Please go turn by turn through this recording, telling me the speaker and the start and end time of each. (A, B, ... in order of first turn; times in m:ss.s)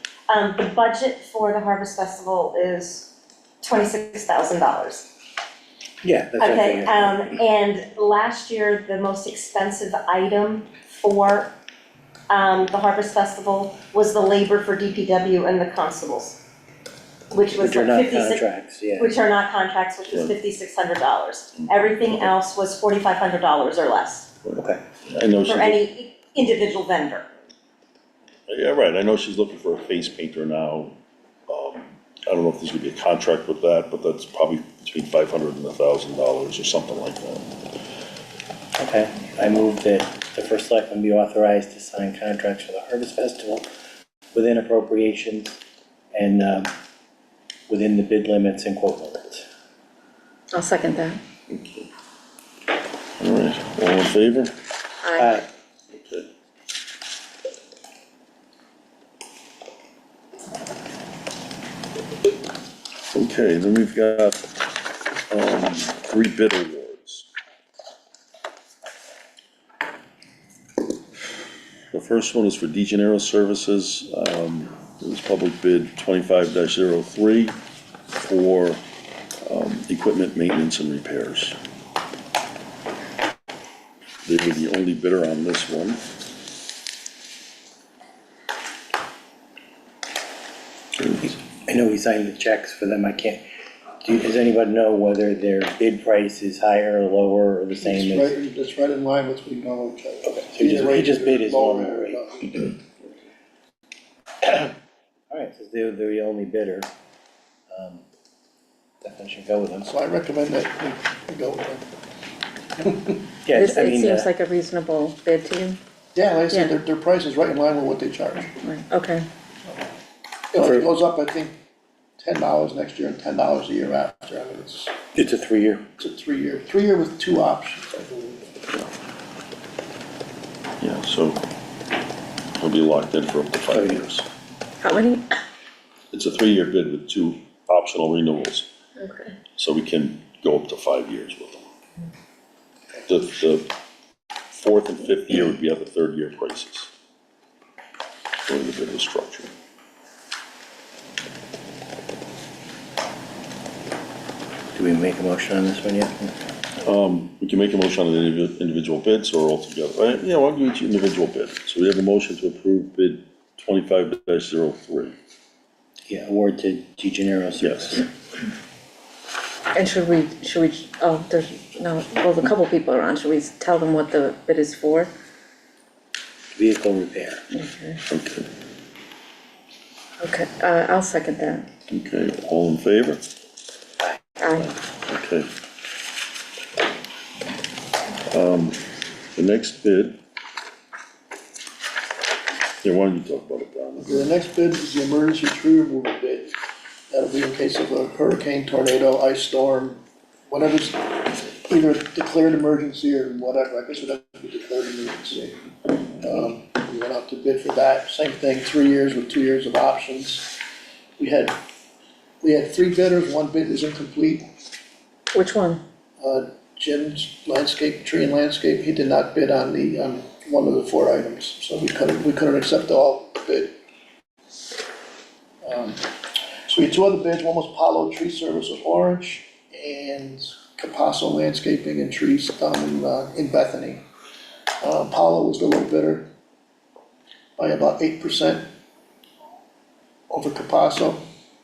0:00.3-0:03.1 A
0:03.6-0:05.1 A
0:06.0-0:07.3 B
0:06.4-0:11.5 A
0:12.3-0:16.4 A
0:17.3-0:24.3 A
0:17.5-0:19.1 B
0:24.4-0:25.8 C
0:24.6-0:24.8 B
0:25.4-0:27.2 A
0:28.5-0:31.0 C
0:31.5-0:37.5 C
0:38.8-0:43.7 B
0:44.3-0:45.6 B
0:46.1-0:46.7 B
0:47.7-0:49.4 B
0:50.5-0:51.2 D
0:51.5-0:51.9 C
0:53.2-0:54.5 C
0:55.0-0:55.4 D
0:55.2-0:55.4 B
0:55.9-0:56.3 C
1:03.1-1:04.4 C
1:05.3-1:07.3 C
1:11.9-1:17.5 C
1:18.2-1:18.8 C
1:19.4-1:21.6 C
1:24.2-1:26.0 C
1:31.2-1:33.4 B
1:34.0-1:38.4 B
1:37.8-1:42.7 E
1:40.2-1:42.7 B
1:44.4-1:44.7 B
1:45.3-1:46.9 B
1:47.7-1:48.0 B
1:49.0-1:49.9 B
1:49.8-1:51.9 E
1:53.4-1:54.3 B
1:53.5-1:55.8 D
1:56.1-1:58.6 E
1:58.5-1:59.3 D
2:00.5-2:01.6 E
2:02.2-2:04.9 E
2:05.1-2:05.9 B
2:06.0-2:08.5 E
2:10.8-2:11.4 C
2:12.6-2:14.2 C
2:13.7-2:14.1 B
2:14.8-2:15.2 D
2:16.1-2:18.7 C
2:19.0-2:19.4 D
2:19.6-2:21.7 C
2:23.1-2:23.7 C
2:24.5-2:26.9 C
2:28.5-2:29.5 C
2:34.7-2:36.4 B
2:36.8-2:45.1 C
2:46.1-2:48.1 B
2:47.6-2:47.9 C
2:49.7-2:55.1 D
2:56.6-2:57.4 B
2:57.5-2:58.0 D
2:58.1-2:58.5 C
3:00.2-3:01.7 D
3:01.9-3:03.2 C
3:04.4-3:04.7 D
3:04.6-3:05.5 C
3:08.2-3:08.8 C
3:09.3-3:10.2 C
3:12.8-3:14.2 C
3:14.0-3:16.5 E
3:17.1-3:30.6 E
3:31.2-3:31.6 E
3:32.4-3:34.4 E
3:35.3-3:35.8 D
3:36.2-3:43.8 E
3:45.6-3:46.1 E
3:46.7-3:54.0 E
3:54.8-3:56.3 E
3:57.6-3:58.7 E
4:00.3-4:01.2 E